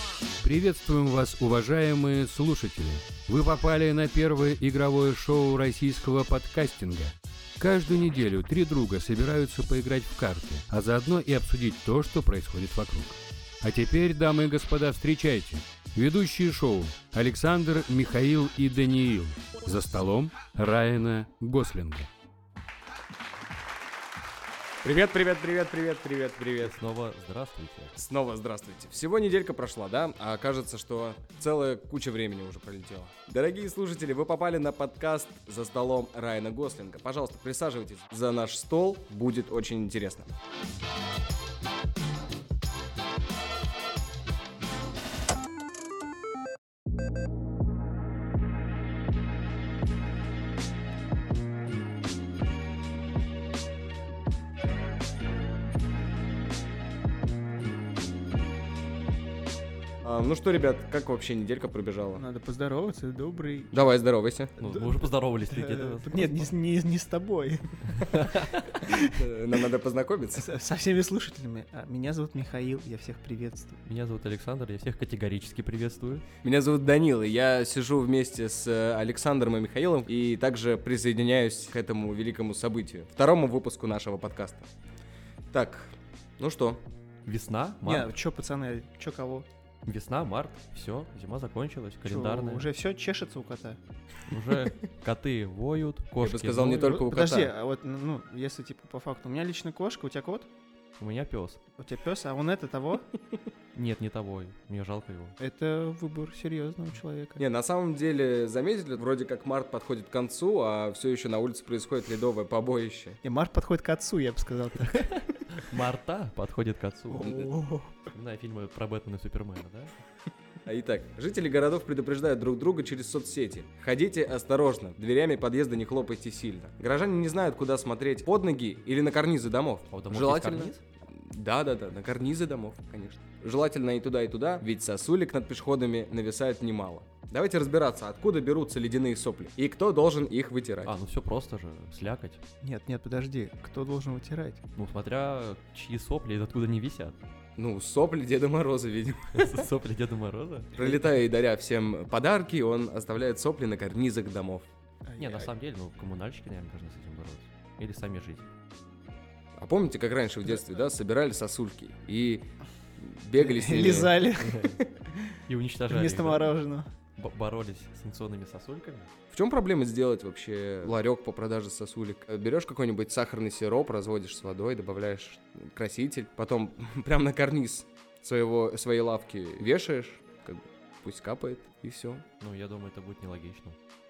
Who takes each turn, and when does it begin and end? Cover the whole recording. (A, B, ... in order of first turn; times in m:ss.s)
0:00.4-0:22.1 A
0:24.8-0:26.8 B
0:26.6-0:27.9 C
0:28.0-0:40.3 B
1:00.0-1:02.2 B
1:02.2-1:04.0 D
1:03.7-1:04.5 B
1:04.6-1:06.5 C
1:04.6-1:09.1 D
1:08.0-1:08.5 C
1:08.9-1:10.5 B
1:10.4-1:13.8 D
1:13.9-1:16.2 C
1:16.4-1:24.7 B
1:25.5-1:26.8 B
1:27.3-1:28.1 C
1:27.8-1:29.5 D
1:29.8-1:32.7 C
1:32.0-1:33.8 D
1:34.3-1:37.0 C
1:36.2-1:37.5 B
1:36.8-1:40.5 D
1:41.0-1:41.6 C
1:41.8-1:43.1 D
1:43.8-1:45.4 C
1:45.4-1:47.4 D
1:47.4-1:53.2 B
1:53.2-1:55.1 D
1:55.5-1:57.5 C
1:57.1-1:58.0 D
1:58.1-1:59.9 C
2:00.7-2:20.9 B
2:09.9-2:10.8 C
2:20.8-2:22.4 C
2:22.6-2:24.6 D
2:24.8-2:27.2 C
2:27.6-2:29.7 B
2:29.3-2:30.7 C
2:30.8-2:34.7 B
2:35.1-2:35.5 D
2:35.2-2:38.5 C
2:39.6-2:44.2 B
2:43.4-2:45.4 D
2:45.5-2:46.6 C
2:45.9-2:46.9 D
2:47.2-2:49.1 C
2:49.3-3:02.2 B
3:02.4-3:03.8 C